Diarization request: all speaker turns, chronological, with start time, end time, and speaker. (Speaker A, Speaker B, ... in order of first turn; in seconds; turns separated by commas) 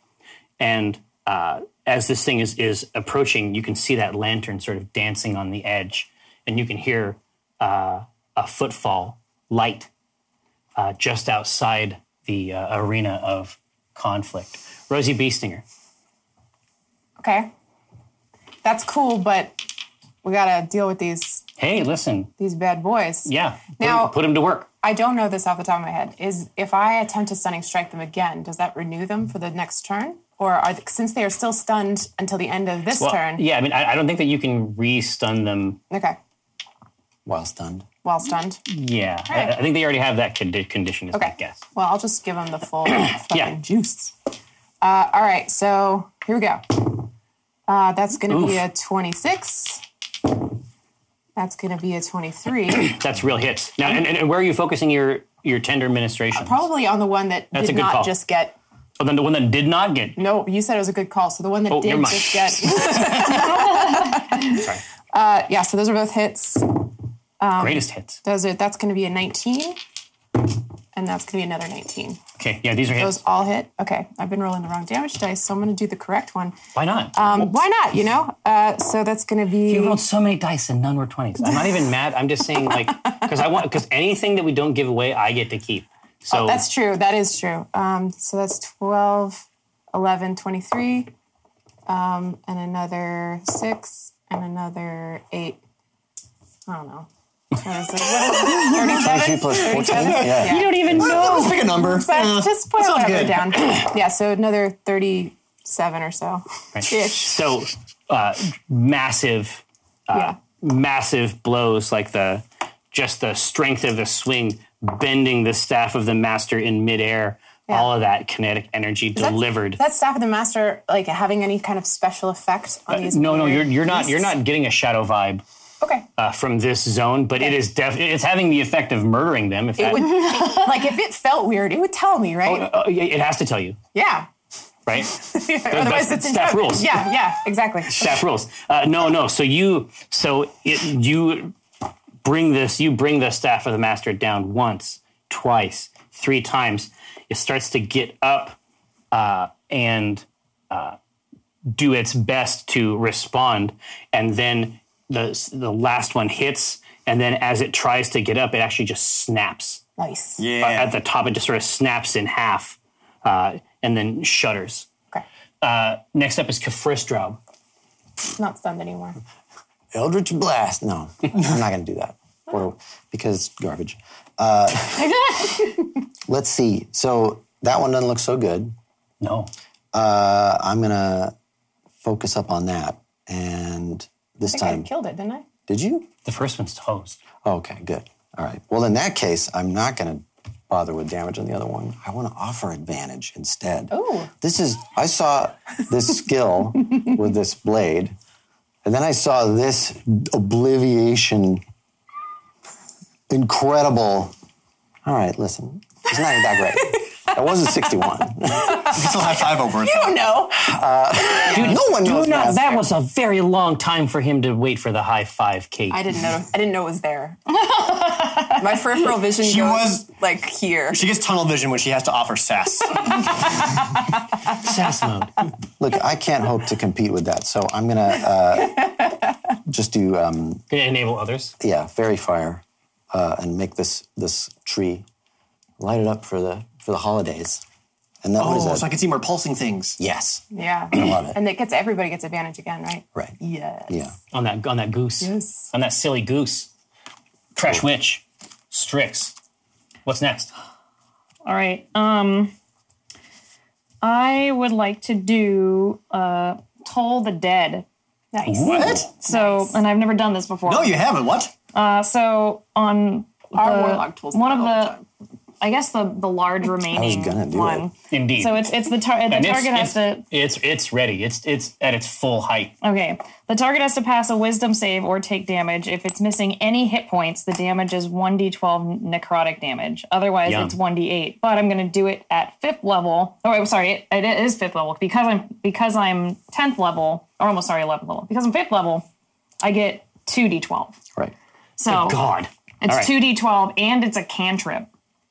Speaker A: 0.6-9.9, Speaker A: 10.8-15.6, Speaker B: 17.2-17.5, Speaker B: 18.6-19.6, Speaker B: 20.2-21.4, Speaker A: 21.6-22.3, Speaker B: 22.4-24.2, Speaker A: 23.2-24.7, Speaker B: 24.8-33.5, Speaker A: 33.0-35.8, Speaker B: 35.9-36.2, Speaker C: 37.2-37.9, Speaker B: 38.0-38.6, Speaker A: 38.7-41.6, Speaker B: 39.3-39.5, Speaker B: 41.1-44.1, Speaker A: 42.9-43.5, Speaker B: 44.8-47.1, Speaker B: 47.7-49.8, Speaker A: 48.3-48.6, Speaker B: 51.4-53.0, Speaker A: 52.7-56.6, Speaker B: 56.3-58.6, Speaker A: 57.5-58.1, Speaker A: 59.0-60.2, Speaker B: 60.1-69.8, Speaker A: 61.7-63.8, Speaker A: 64.5-64.8, Speaker A: 67.6-68.2, Speaker B: 70.9-72.2, Speaker A: 72.4-73.2, Speaker B: 72.9-76.6, Speaker A: 76.7-77.5, Speaker B: 77.1-80.0, Speaker A: 79.7-86.6, Speaker B: 81.4-81.9, Speaker B: 82.7-83.3, Speaker B: 86.3-91.1, Speaker B: 91.9-95.6, Speaker B: 96.7-107.4, Speaker C: 98.6-100.9, Speaker D: 99.9-103.8, Speaker A: 100.3-101.7, Speaker A: 106.7-119.8, Speaker B: 110.1-110.4, Speaker B: 119.1-124.3, Speaker A: 122.9-125.4, Speaker B: 125.8-126.0, Speaker A: 126.2-130.2, Speaker B: 129.8-132.7, Speaker A: 132.4-133.8, Speaker B: 133.9-134.3, Speaker A: 134.9-137.1, Speaker B: 135.0-138.2, Speaker A: 137.9-141.5, Speaker A: 142.2-148.6, Speaker A: 149.1-151.0, Speaker A: 151.7-159.8, Speaker B: 160.0-160.4, Speaker D: 160.4-160.9, Speaker A: 160.6-164.9, Speaker A: 165.6-167.4, Speaker B: 168.3-169.2, Speaker C: 169.9-175.2, Speaker C: 176.3-178.7, Speaker A: 179.2-179.5, Speaker C: 179.9-181.3, Speaker C: 182.0-184.9, Speaker B: 184.4-185.4, Speaker C: 185.7-186.1, Speaker A: 186.2-187.2, Speaker C: 187.4-198.1, Speaker B: 193.9-194.3, Speaker C: 198.8-201.6, Speaker C: 203.3-204.3, Speaker C: 205.0-209.0, Speaker B: 208.5-210.7, Speaker D: 208.9-210.2, Speaker C: 210.5-212.8, Speaker B: 211.3-211.8, Speaker A: 211.4-216.0, Speaker B: 215.9-221.1, Speaker E: 217.9-218.4, Speaker D: 219.3-220.1, Speaker D: 220.9-223.2, Speaker A: 224.5-225.3, Speaker C: 225.8-229.0, Speaker C: 229.7-230.6, Speaker A: 230.7-231.5, Speaker C: 231.6-235.0, Speaker C: 235.8-237.6, Speaker C: 238.2-238.9, Speaker D: 238.4-240.0, Speaker C: 240.0-241.4, Speaker B: 240.5-244.1, Speaker C: 243.9-244.1, Speaker A: 244.3-246.7, Speaker B: 245.2-245.7, Speaker A: 247.5-249.3, Speaker A: 250.1-250.5, Speaker E: 251.4-252.5, Speaker E: 254.0-257.9, Speaker B: 258.3-259.8, Speaker A: 258.4-259.1, Speaker D: 258.7-259.1, Speaker E: 259.2-261.1, Speaker D: 260.6-261.5, Speaker E: 261.7-265.0, Speaker B: 263.5-265.0, Speaker E: 265.6-270.2, Speaker C: 266.9-267.9, Speaker A: 268.1-268.7, Speaker A: 269.3-272.7, Speaker E: 272.8-289.1, Speaker A: 280.4-280.8, Speaker E: 289.6-291.0, Speaker E: 291.8-292.2, Speaker A: 291.9-293.1, Speaker E: 292.8-294.9